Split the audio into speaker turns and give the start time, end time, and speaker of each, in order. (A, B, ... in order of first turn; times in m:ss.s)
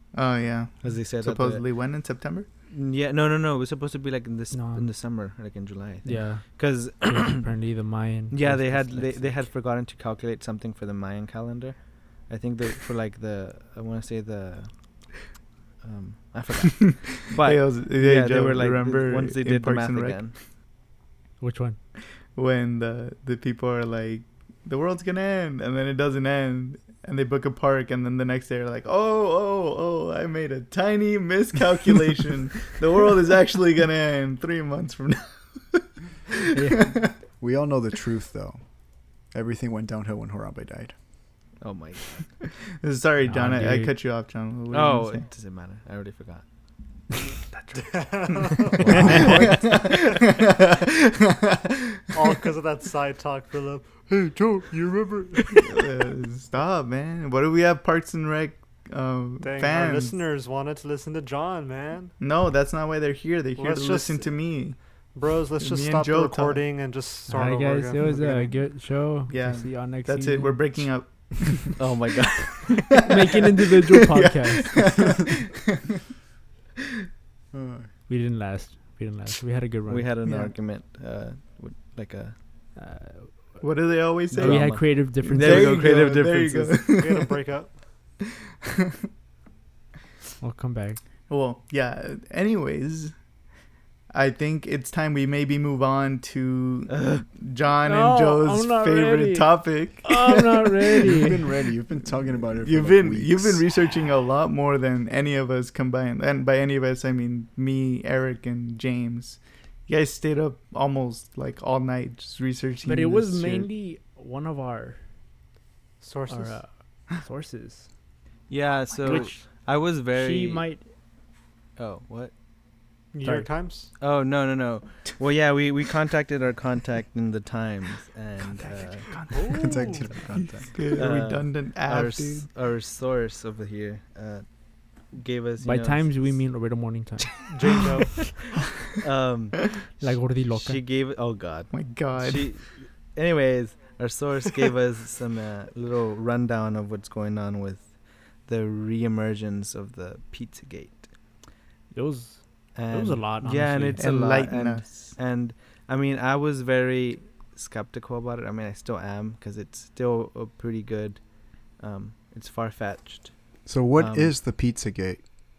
0:00.1-0:02.5 A
0:00.8-0:01.7 B
0:02.7-0:07.5 B
0:04.5-0:04.9 C
0:06.0-0:09.5 C
0:08.3-0:15.3 B
0:15.8-0:20.4 B
0:16.8-0:20.4 A
0:21.4-0:21.8 C
0:22.3-0:36.0 A
0:36.6-0:37.0 C
0:36.6-0:37.1 A
0:37.0-0:41.0 D
0:41.6-0:42.4 B
0:42.8-0:45.3 A
0:43.2-0:43.9 C
0:44.7-0:50.0 B
0:48.0-0:49.2 E
0:48.8-0:49.5 D
0:49.0-0:50.8 A
0:49.1-0:49.4 C
0:52.1-0:55.8 E
0:55.8-1:00.2 A
0:59.4-1:02.2 E
1:02.2-1:06.7 A
1:03.6-1:08.3 E
1:07.3-1:11.5 C
1:08.0-1:11.8 A
1:11.8-1:13.0 B
1:13.0-1:15.1 C
1:14.2-1:15.3 A
1:17.5-1:17.9 D
1:18.1-1:20.1 C
1:19.9-1:22.4 B
1:20.2-1:20.6 A
1:22.8-1:25.9 C
1:23.6-1:27.4 A
1:24.3-1:27.0 B
1:26.9-1:28.1 E
1:30.4-1:31.0 C
1:31.3-1:33.5 A
1:34.1-1:41.0 A
1:36.9-1:37.2 B
1:37.8-1:41.4 C
1:41.0-1:43.7 D
1:42.6-1:53.7 A
1:52.8-1:55.1 C
1:56.0-1:56.8 E
1:56.3-2:00.9 C
1:58.5-2:00.9 B
2:01.8-2:02.3 B
2:03.1-2:04.0 E
2:03.2-2:03.5 C
2:04.0-2:09.4 B
2:08.6-2:09.5 A
2:09.3-2:10.2 E
2:09.6-2:11.0 D
2:10.3-2:12.5 A
2:10.9-2:16.8 B
2:15.6-2:17.5 C
2:17.5-2:18.4 E
2:18.2-2:31.2 B
2:20.0-2:20.8 C
2:21.7-2:22.5 A
2:31.9-2:34.0 C
2:32.7-2:44.3 B
2:34.0-2:35.2 A
2:43.6-2:45.2 D